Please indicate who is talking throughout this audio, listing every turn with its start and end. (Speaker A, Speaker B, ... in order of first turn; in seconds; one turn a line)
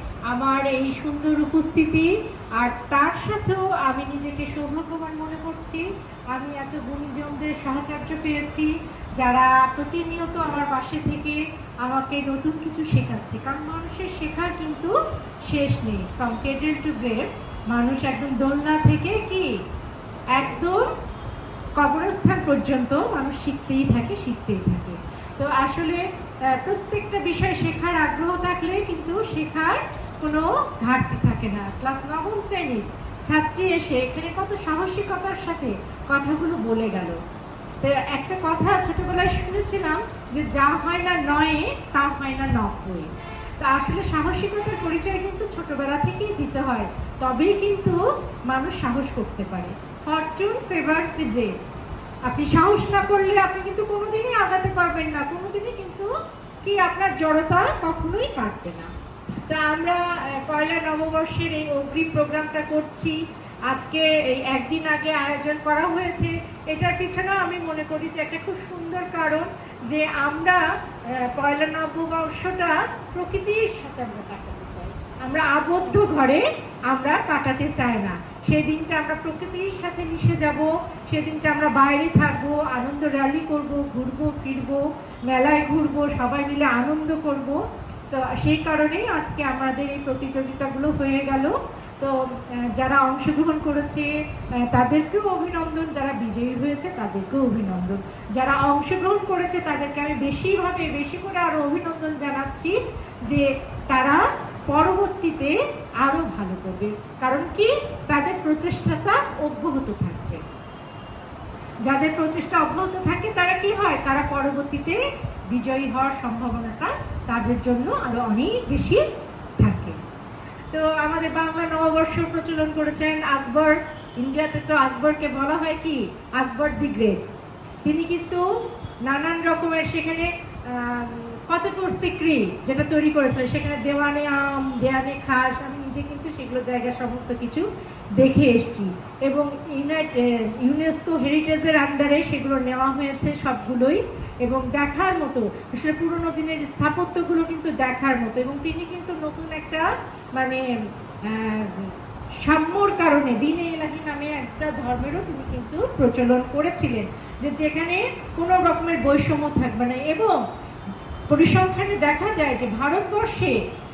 Speaker A: 0.3-14.9
Speaker A: 15.5-19.5
Speaker A: 20.3-20.9
Speaker A: 21.8-37.2
Speaker A: 37.8-51.5
Speaker A: 52.3-56.1
Speaker A: 56.6-58.9
Speaker A: 59.5-63.2
Speaker A: 63.7-87.6
Speaker A: 88.1-110.4
Speaker A: 111.8-119.0
Speaker A: 119.6-120.0
Speaker A: 120.7-127.2
Speaker A: 127.8-128.4
Speaker A: 129.0-137.7
Speaker A: 138.2-150.6
Speaker A: 151.2-160.4
Speaker A: 161.3-163.6